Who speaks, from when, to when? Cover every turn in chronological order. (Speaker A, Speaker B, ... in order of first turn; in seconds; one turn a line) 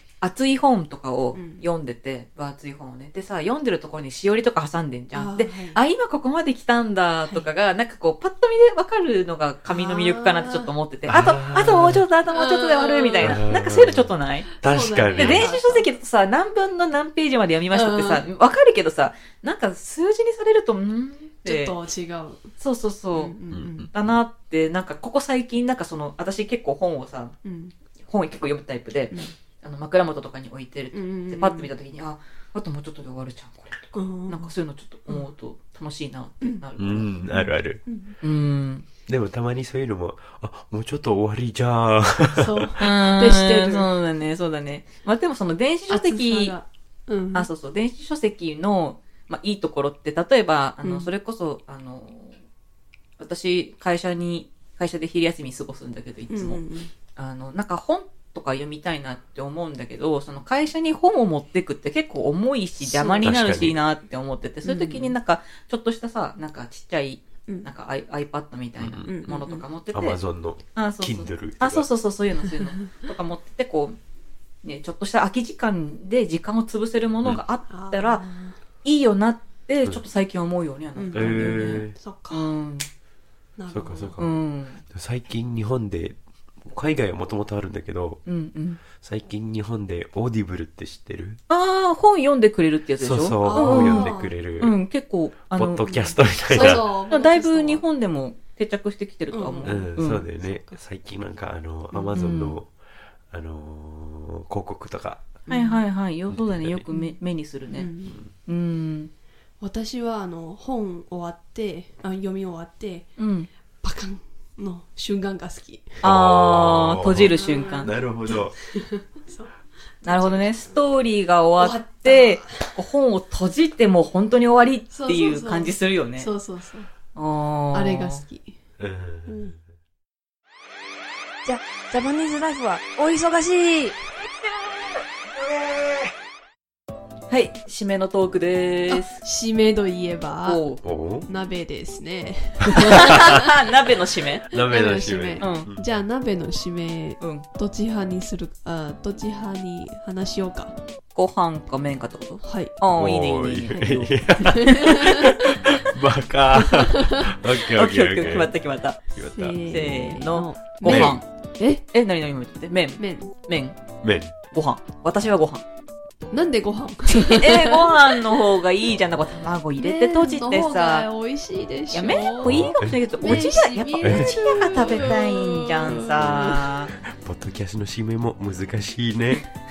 Speaker A: 0.2-14.5
Speaker B: 1.3-1.6
Speaker B: 5.1-5.8
Speaker B: 9.7-11.3
Speaker C: 11.1-12.0
Speaker B: 12.3-13.4
Speaker C: 13.2-14.1
Speaker B: 14.5-15.9
Speaker C: 14.6-15.5
Speaker A: 15.1-21.8
Speaker B: 17.7-18.2
Speaker B: 21.4-22.5
Speaker A: 22.6-23.3
Speaker B: 23.1-23.9
Speaker C: 23.5-23.9
Speaker A: 23.9-27.3
Speaker B: 27.4-27.7
Speaker A: 28.0-37.1
Speaker B: 30.9-31.7
Speaker B: 33.9-34.5
Speaker C: 36.8-37.8
Speaker B: 37.3-38.2
Speaker A: 38.2-38.9
Speaker C: 39.1-42.8
Speaker B: 42.4-43.9
Speaker A: 42.8-46.5
Speaker B: 45.9-47.5
Speaker A: 47.3-52.4
Speaker B: 50.8-51.1
Speaker A: 53.2-56.6
Speaker B: 56.3-56.9
Speaker A: 57.2-70.2
Speaker B: 62.8-63.3
Speaker C: 63.2-63.8
Speaker B: 64.7-65.1
Speaker C: 68.8-69.2
Speaker B: 69.0-69.7
Speaker C: 69.9-71.9
Speaker A: 70.8-74.0
Speaker A: 74.6-78.2
Speaker B: 77.7-78.6
Speaker A: 78.8-82.9
Speaker B: 81.0-82.5
Speaker C: 81.1-82.0
Speaker B: 83.6-84.2
Speaker C: 83.7-88.2
Speaker A: 84.2-84.8
Speaker A: 88.3-88.8
Speaker C: 88.9-91.4
Speaker A: 91.5-100.2
Speaker C: 93.0-94.8
Speaker B: 93.4-94.3
Speaker C: 95.5-96.9
Speaker B: 96.5-97.8
Speaker B: 99.3-100.8
Speaker C: 99.7-102.7
Speaker A: 102.1-102.6
Speaker C: 103.3-105.4
Speaker B: 105.5-105.8
Speaker A: 105.5-107.9
Speaker C: 106.3-106.9
Speaker B: 107.7-108.2
Speaker A: 108.5-109.1
Speaker B: 109.6-113.2
Speaker A: 113.2-113.5
Speaker B: 113.8-116.0
Speaker C: 116.0-118.5
Speaker A: 116.0-118.0
Speaker B: 117.3-120.8
Speaker A: 120.0-126.3
Speaker B: 121.6-122.7
Speaker B: 124.9-126.9
Speaker A: 127.2-128.2
Speaker B: 127.7-128.6
Speaker C: 128.8-129.5
Speaker B: 129.3-129.6
Speaker D: 131.5-133.9
Speaker B: 133.1-133.5
Speaker C: 135.4-136.1
Speaker A: 137.3-139.2
Speaker B: 138.9-140.6
Speaker A: 140.4-140.8
Speaker C: 140.8-141.3
Speaker B: 141.3-143.5
Speaker A: 142.8-144.5
Speaker C: 142.9-143.2
Speaker C: 144.5-145.9
Speaker B: 144.5-150.8
Speaker A: 145.4-145.7
Speaker A: 151.2-154.2
Speaker B: 152.4-152.8
Speaker C: 152.9-158.5
Speaker B: 154.4-155.6
Speaker B: 156.6-157.3
Speaker A: 157.7-159.0
Speaker C: 159.1-159.6
Speaker B: 159.3-161.8
Speaker A: 159.7-161.3
Speaker C: 160.9-161.2
Speaker A: 161.9-163.8
Speaker B: 163.0-163.3
Speaker C: 164.0-164.3
Speaker A: 164.5-165.6
Speaker B: 166.3-168.0
Speaker A: 167.1-171.1
Speaker B: 169.8-176.7
Speaker A: 171.9-176.9
Speaker C: 172.4-173.5
Speaker C: 174.0-174.4
Speaker C: 176.9-179.5